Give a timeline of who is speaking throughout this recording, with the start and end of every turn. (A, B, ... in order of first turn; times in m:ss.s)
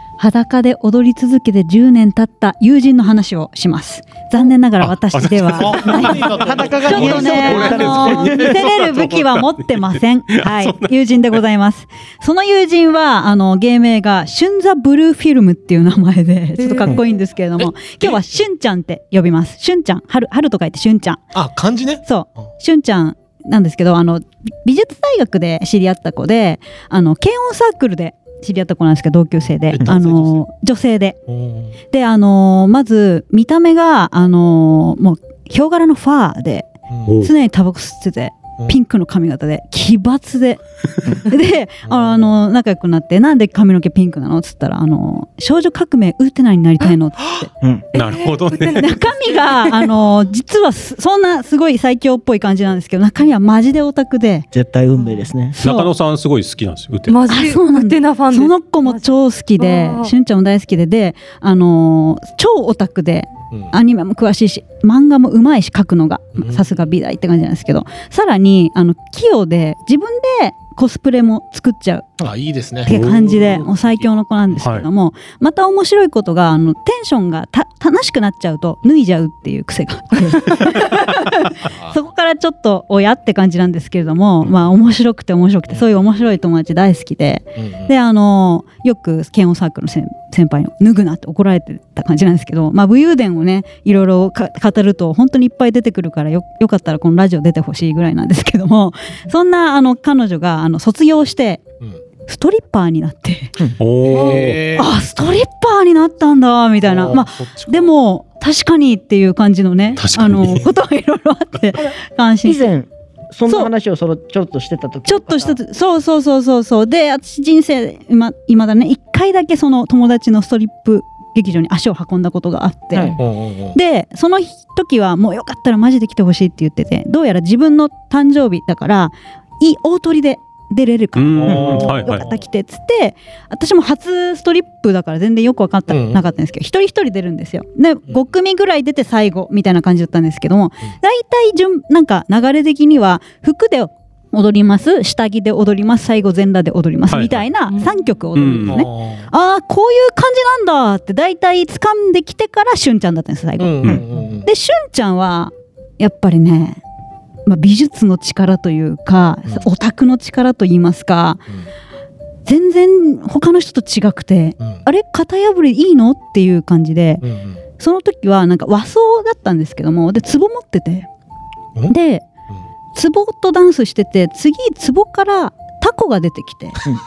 0:00.2-0:21.2 A
0:04.8-0:11.4 B
0:05.6-0:08.3 C
0:06.4-0:08.5 D
0:16.6-0:16.9 E
0:21.3-0:22.5 C
0:22.0-0:31.2 A
0:29.7-0:30.4 C
0:31.3-0:31.8 C
0:31.9-0:36.7 A
0:36.9-0:37.1 C
0:37.1-0:37.3 B
0:37.2-0:40.6 A
0:41.1-0:47.5 A
0:41.9-0:42.2 C
0:47.9-0:49.9 E
0:47.9-0:48.8 B
0:48.8-0:54.5 A
0:54.5-0:55.6 D
0:55.0-0:55.2 E
0:55.6-0:57.2 B
0:55.6-0:55.9 A
0:57.1-1:00.1 E
0:57.3-1:12.2 A
1:06.4-1:06.6 C
1:12.2-1:14.1 C
1:12.9-1:41.6 A
1:12.9-1:13.4 B
1:14.6-1:14.9 B
1:27.6-1:27.9 C
1:42.3-1:43.5 A
1:43.8-1:44.6 B
1:44.0-1:44.9 C
1:44.7-1:52.6 A
1:46.8-1:47.9 C
1:50.0-1:50.6 B
1:52.4-1:55.6 D
1:55.1-2:03.1 A
2:02.9-2:03.2 D
2:03.2-2:03.8 C
2:03.7-2:36.8 A
2:11.2-2:12.2 B
2:11.4-2:12.3 C
2:11.5-2:12.0 D
2:15.9-2:16.2 C
2:27.1-2:27.4 B
2:27.7-2:28.0 E
2:28.4-2:28.8 B
2:28.7-2:29.3 C
2:33.6-2:34.5 C
2:37.4-2:41.4 A
2:42.4-2:47.2 A
2:47.2-2:47.6 C
2:47.8-2:51.1 A
2:51.9-2:52.3 A
2:52.9-2:56.8 A